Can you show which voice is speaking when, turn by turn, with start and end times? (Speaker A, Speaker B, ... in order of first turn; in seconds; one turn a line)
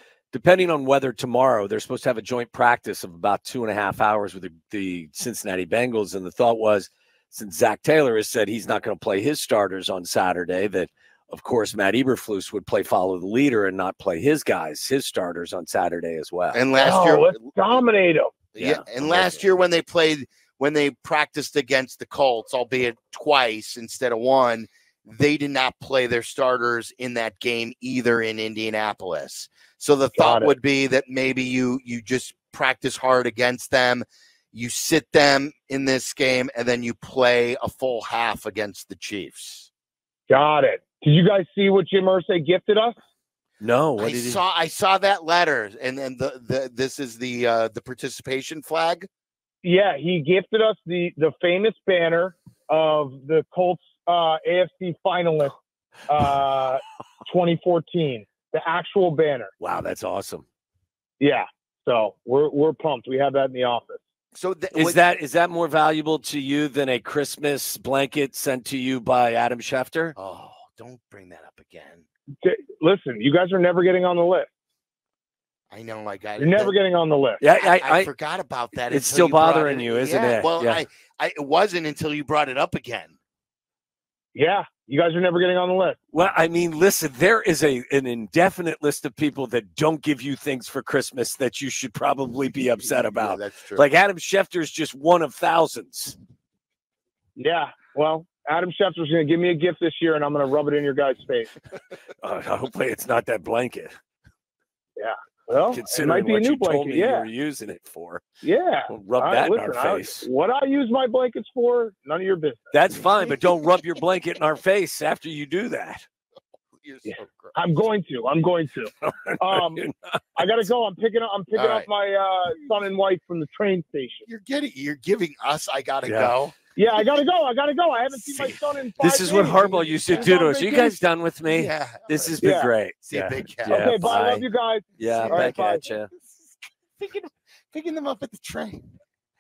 Speaker A: 0.3-16.6
Speaker B: 16.5-17.5
Speaker C: 16.8-18.3
Speaker A: 18.6-19.4
Speaker B: 18.6-39.7
Speaker C: 30.1-30.5
Speaker C: 40.3-42.9
Speaker A: 43.6-44.4
Speaker B: 44.0-49.1
Speaker C: 49.6-55.5
Speaker C: 56.1-59.5
Speaker A: 59.6-60.4
Speaker C: 61.2-64.0
Speaker B: 64.3-65.0
Speaker A: 64.7-70.1
Speaker B: 70.2-72.0
Speaker C: 72.4-74.5
Speaker B: 75.7-76.7
Speaker C: 76.4-77.4
Speaker A: 77.4-78.1
Speaker B: 77.5-83.1
Speaker A: 78.9-80.8
Speaker C: 84.3-86.0
Speaker A: 86.1-96.2
Speaker B: 92.8-93.8
Speaker C: 97.3-101.5
Speaker A: 102.2-103.9
Speaker C: 105.0-107.3
Speaker A: 105.7-108.2
Speaker C: 108.4-112.7
Speaker A: 108.9-110.2
Speaker A: 112.7-116.0
Speaker B: 116.8-117.5
Speaker C: 117.1-119.8
Speaker A: 119.0-120.5
Speaker C: 120.3-124.3
Speaker B: 121.5-121.9
Speaker B: 124.3-126.5
Speaker A: 126.0-126.3
Speaker C: 126.8-130.8
Speaker A: 129.0-134.4
Speaker B: 129.3-132.4
Speaker C: 132.4-132.7
Speaker B: 133.0-134.1
Speaker C: 133.7-135.8
Speaker B: 135.0-135.6
Speaker A: 135.0-136.1
Speaker B: 136.1-138.9